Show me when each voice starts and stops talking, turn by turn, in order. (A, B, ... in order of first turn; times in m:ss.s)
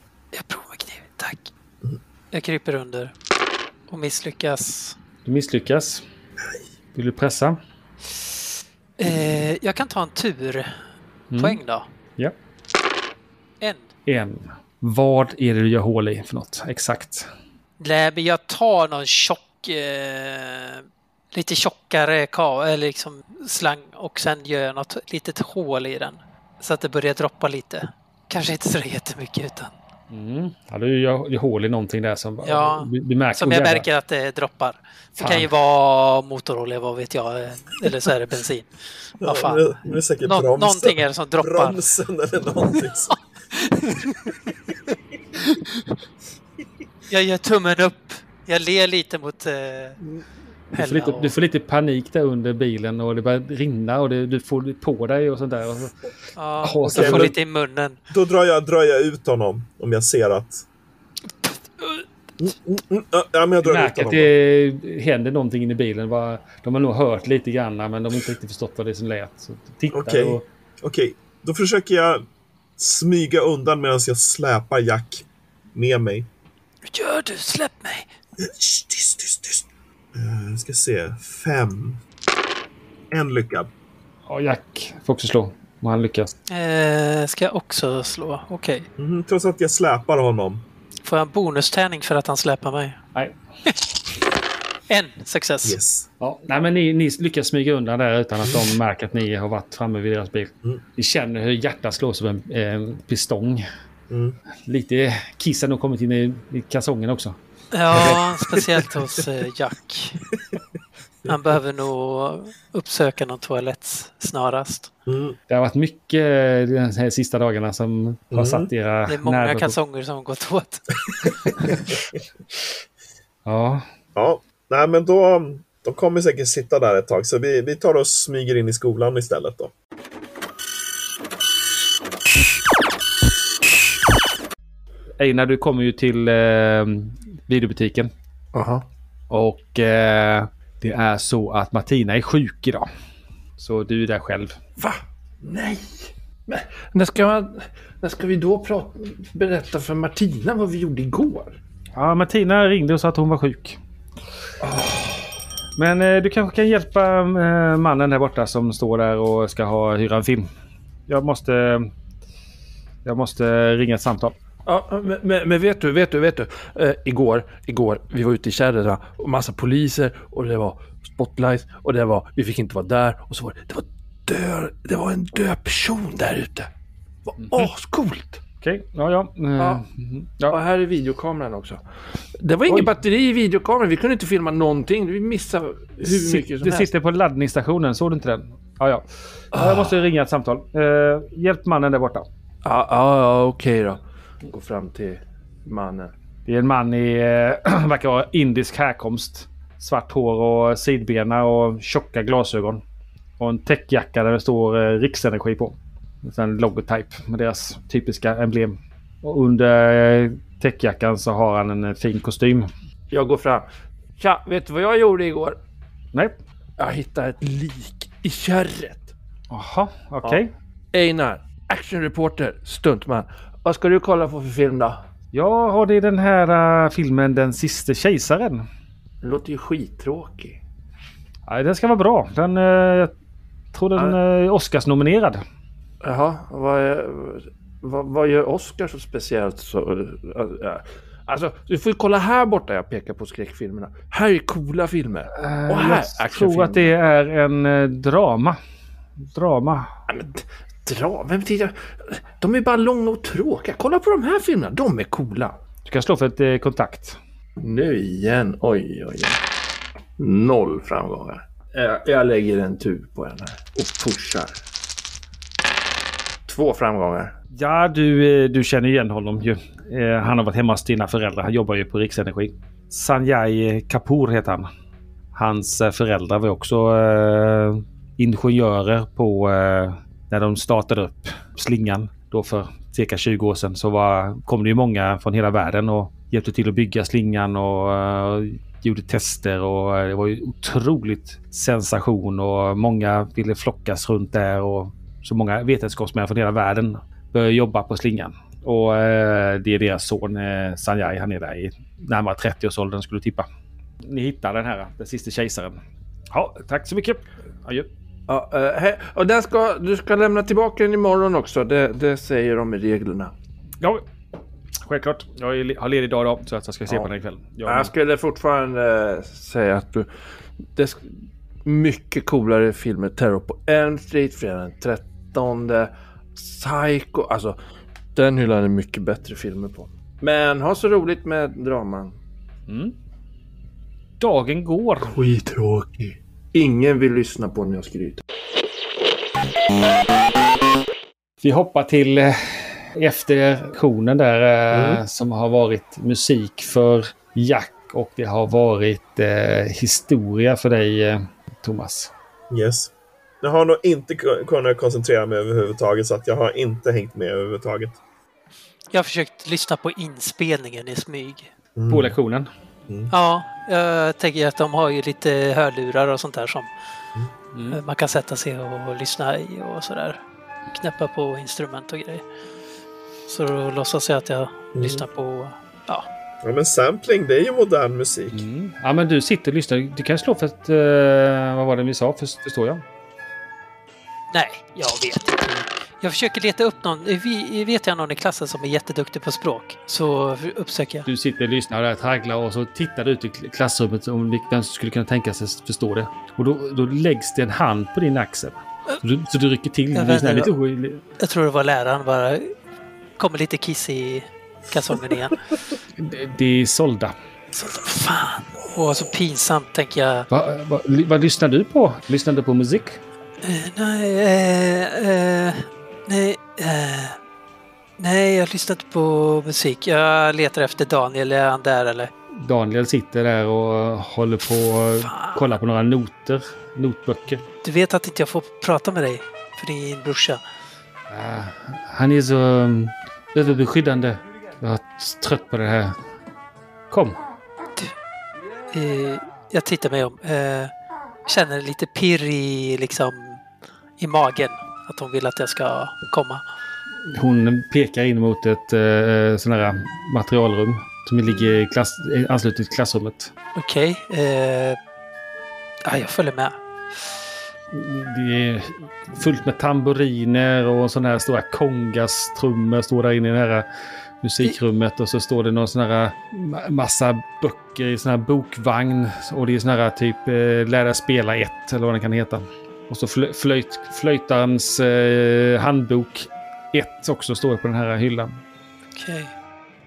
0:00.3-0:01.5 A
0:02.3-0:03.1 A
0:03.9-0:05.0 A
0:05.2-0:06.0 B
0:07.0-0:07.6 B
0:09.0-0:10.7 A
0:11.3-0:11.6 B
0:11.4-0:11.9 A
0:13.6-0:13.9 A
0:14.1-0:17.3 B
0:17.8-0:29.7 A
0:30.1-0:33.9 B
0:32.4-0:41.8 A
0:35.2-0:35.5 B
0:39.2-0:43.2 C
0:42.6-0:44.4 A
0:47.1-0:50.0 A
0:50.7-0:51.4 A
0:50.8-0:56.0 B
0:56.4-0:58.0 A
0:56.6-0:57.3 B
0:56.9-0:57.3 C
0:58.1-1:00.6 C
1:01.4-1:02.0 A
1:02.4-1:04.3 C
1:03.6-1:10.4 B
1:09.9-1:12.2 C
1:12.8-1:16.3 C
1:16.9-1:18.1 A
1:18.4-1:22.0 C
1:23.1-1:23.7 C
1:24.3-1:26.3 B
1:26.5-1:28.9 A
1:29.0-1:30.6 C
1:31.0-1:33.0 A
1:34.9-1:35.8 A
1:35.6-1:36.1 C
1:36.2-1:43.6 B
1:44.1-1:44.4 C
1:44.7-1:47.4 B
1:47.7-1:50.2 A
1:48.0-1:48.8 C
1:51.3-1:54.9 A
1:55.1-1:55.4 C
1:55.5-1:59.8 B
1:58.3-1:58.7 C
1:59.1-2:00.9 A
2:03.5-2:03.8 B
2:04.2-2:09.7 C
2:15.2-2:18.1 B
2:18.5-2:18.9 D
2:19.3-2:22.9 B
2:23.6-2:24.6 B
2:24.8-2:31.6 D
2:32.0-2:33.8 B
2:34.6-2:35.3 D
2:35.8-2:40.5 B
2:41.1-2:41.9 B
2:43.0-2:44.3 B
2:44.6-2:56.7 D
2:57.3-2:58.4 D
2:57.4-2:57.7 B
2:58.6-3:00.6 B
3:00.5-3:01.8 D
3:02.4-3:06.9 D
3:06.0-3:12.3 B
3:09.5-3:10.0 D
3:12.6-3:16.1 D
3:16.5-3:22.8 B
3:23.4-3:32.7 B
3:33.1-3:35.6 D
3:36.8-3:39.1 D
3:39.5-3:40.5 B
3:40.9-3:45.0 D
3:45.3-3:48.7 B
3:49.2-3:50.6 D
3:51.5-3:53.1 B
3:53.7-3:55.4 B
3:56.0-4:06.9 D
4:05.3-4:08.6 B
4:09.3-4:09.9 B
4:10.1-4:15.6 D
4:15.8-4:17.2 B
4:17.6-4:19.4 D
4:20.2-4:24.6 D
4:26.5-4:27.3 D
4:27.6-4:34.7 B
4:35.4-5:03.5 B
5:04.0-5:05.8 B
5:06.3-5:07.9 B
5:08.3-5:13.3 D
5:14.8-5:17.9 B
5:17.7-5:20.1 D
5:20.8-5:21.0 D
5:21.6-5:27.6 D
5:28.2-5:32.2 D
5:32.7-5:33.0 B
5:34.2-5:35.1 B
5:35.0-5:38.2 D
5:41.4-5:52.1 B
5:44.7-5:45.0 C
5:52.5-5:52.9 C
5:53.4-5:58.0 C
5:58.9-6:01.5 A
6:01.8-6:02.2 C
6:01.9-6:02.5 B
6:03.1-6:06.7 A
6:07.5-6:07.8 B
6:07.7-6:10.2 A
6:10.7-6:12.2 A
6:13.3-6:16.1 A
6:14.8-6:15.0 C
6:16.4-6:18.4 C
6:18.3-6:22.8 B
6:24.3-6:31.1 A
6:31.1-6:41.0 B
6:39.9-6:40.5 A
6:41.2-6:42.5 A
6:43.2-6:45.4 A
6:46.0-6:47.1 B
6:47.5-6:50.3 A
6:50.3-6:53.0 B
6:53.4-6:57.2 A
6:58.0-7:02.1 A
7:02.4-7:07.4 B
7:05.0-7:05.5 A
7:07.6-7:10.4 A
7:11.1-7:16.0 B
7:16.9-7:17.2 B
7:18.7-7:20.7 A
7:21.3-7:23.4 A
7:24.0-7:26.4 A
7:27.1-7:33.3 B
7:33.6-7:34.8 A
7:35.9-7:36.6 A
7:37.7-7:43.7 B
7:44.2-7:58.4 B
7:59.0-7:59.3 A